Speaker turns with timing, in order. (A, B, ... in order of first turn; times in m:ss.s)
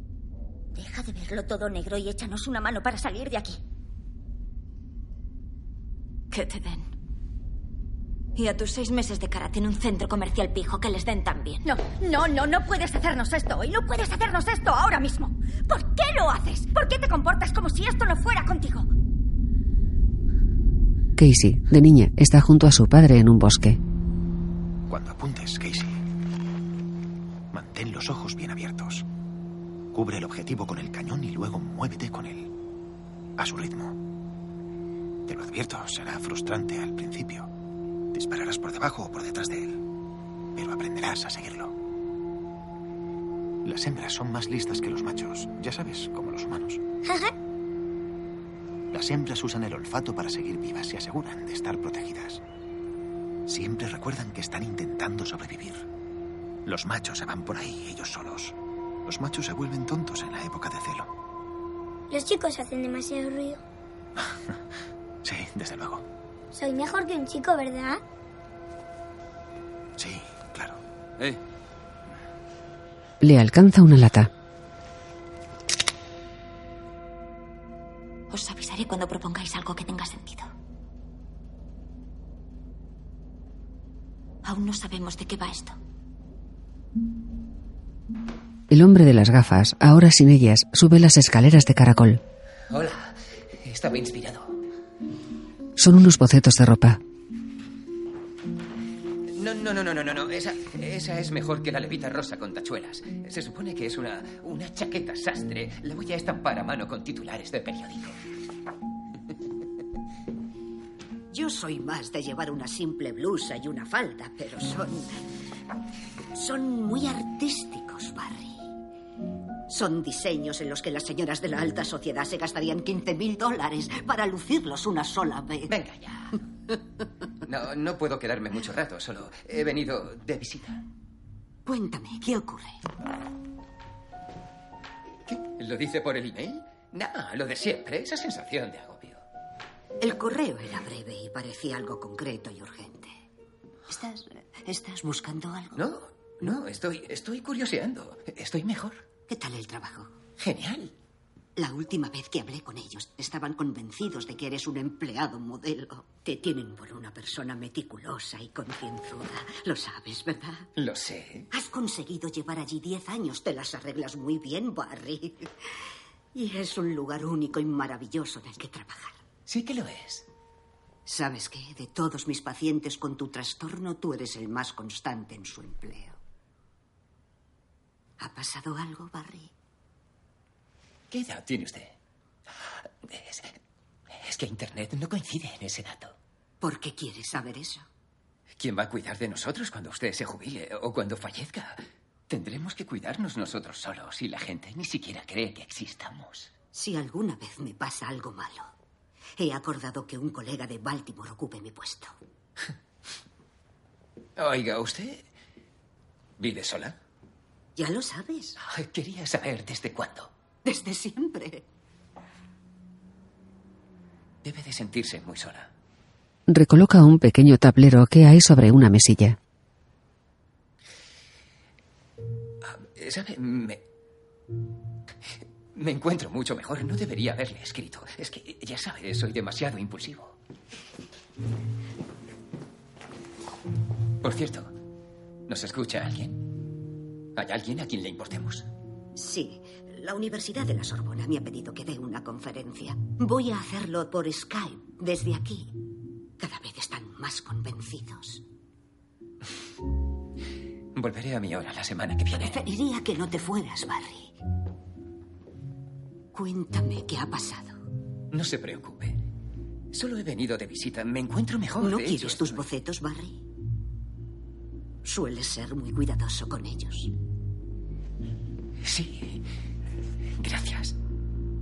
0:00.7-0:03.6 A
0:06.3-0:06.9 B
0:08.3-0:11.6 B
0:11.6-0:18.9 A
0:21.2-0:23.8 C
0:24.9-0:26.0 D
0:27.5-0:29.0 D
0:29.9-0:32.5 D
0:33.4-0:34.0 D
0:35.3-0:37.5 D
0:38.1-0:39.8 D
0:40.6-0:41.7 D
0:43.6-0:46.8 D
0:47.0-0:47.3 E
0:48.9-0:52.4 D
0:53.5-0:55.8 D
0:56.6-0:58.5 D
0:59.0-1:01.1 D
1:02.1-1:03.6 E
1:05.2-1:06.0 D
1:06.5-1:08.0 E
1:10.0-1:10.8 D
1:13.2-1:14.3 C
1:18.3-1:20.5 B
1:24.4-1:25.8 B
1:28.7-1:32.2 C
1:32.7-1:34.6 F
1:35.8-1:37.0 C
1:39.3-1:48.2 F
1:51.3-1:55.2 G
1:56.3-1:58.7 G
1:59.7-2:05.7 G
2:05.7-2:06.4 F
2:07.4-2:10.8 F
2:11.6-2:12.8 G
2:15.3-2:19.2 F
2:20.0-2:23.1 G
2:23.9-2:25.8 G
2:25.8-2:29.0 F
2:29.3-2:30.1 G
2:30.4-2:30.9 F
2:31.6-2:40.7 G
2:40.8-2:41.5 F
2:41.5-2:45.5 G
2:46.3-2:49.2 G
2:49.5-2:50.2 F
2:51.0-2:56.2 G
2:58.2-2:59.5 G
3:01.1-3:02.0 F
3:03.0-3:03.5 F
3:04.1-3:06.1 F
3:06.6-3:07.8 G
3:08.6-3:16.5 F
3:16.7-3:18.7 G
3:19.4-3:22.1 G
3:24.4-3:25.2 F
3:26.4-3:27.0 F
3:27.8-3:28.6 G
3:28.6-3:30.3 F
3:30.6-3:31.6 G
3:34.4-3:35.7 F
3:36.5-3:39.4 C
3:42.6-3:43.8 F
3:45.7-3:50.4 F
3:54.2-3:54.7 F
3:55.5-3:56.5 F
3:57.3-3:58.7 F
3:59.2-4:05.8 G
4:06.4-4:08.4 G
4:10.9-4:12.6 F
4:12.4-4:14.3 G
4:16.3-4:17.8 G
4:18.3-4:19.2 F
4:19.9-4:22.6 F
4:21.8-4:23.4 G
4:25.0-4:27.1 G
4:28.8-4:29.4 F
4:30.4-4:31.0 F